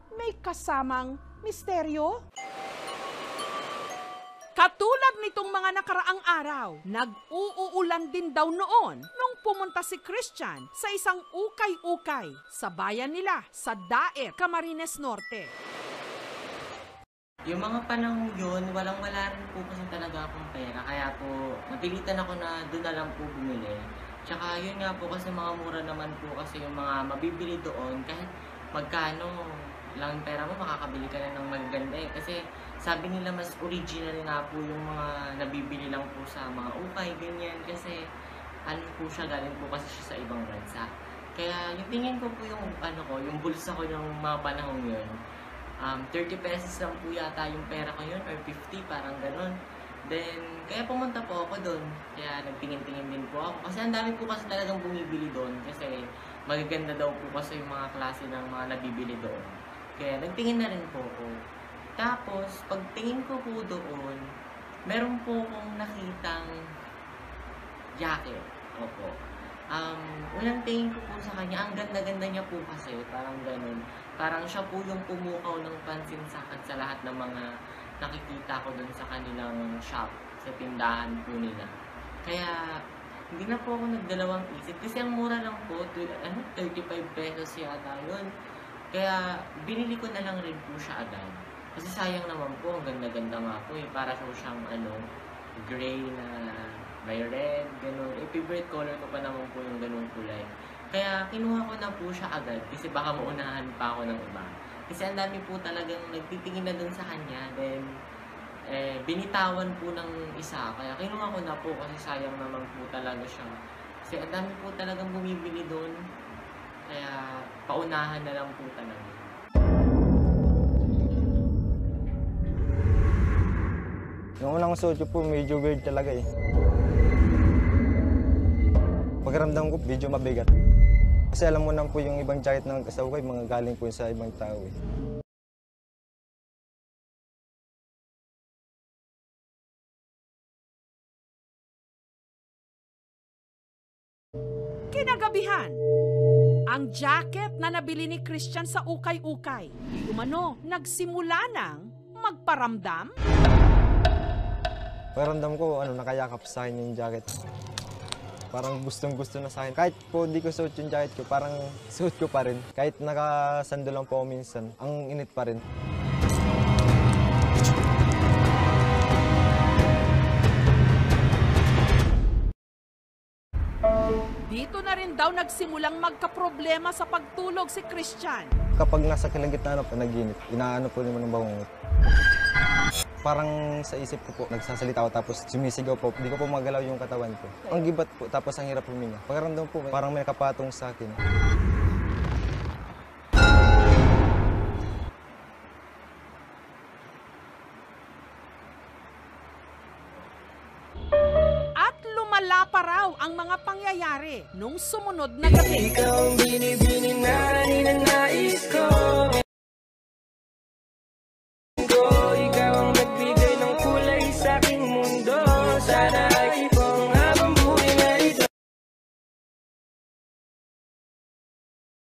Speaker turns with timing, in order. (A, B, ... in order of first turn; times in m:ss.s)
0:00.1-0:02.2 A
0:04.6-0:15.5 A
0:17.5-0:29.3 B
0:30.0-0:38.0 B
0:38.7-0:45.1 B
0:45.8-0:49.6 B
0:50.1-1:01.3 B
1:02.0-1:04.2 B
1:04.9-1:06.5 B
1:08.0-1:09.1 B
1:09.7-1:17.4 B
1:18.0-1:21.7 B
1:22.3-1:22.5 B
1:23.4-1:28.3 B
1:28.9-1:35.0 B
1:35.6-1:47.8 B
1:48.7-1:53.5 B
1:54.1-1:55.9 B
1:56.9-1:59.3 B
2:04.4-2:06.2 C
2:09.2-2:10.5 C
2:11.3-2:14.8 C
2:24.9-2:25.8 A
2:26.7-2:33.1 A
2:35.2-2:37.3 C
2:38.5-2:45.6 C
2:54.5-2:58.5 A
2:58.8-3:01.6 C
3:03.2-3:11.2 C
3:21.8-3:25.9 A
3:25.5-3:29.4 D
3:31.8-3:38.4 D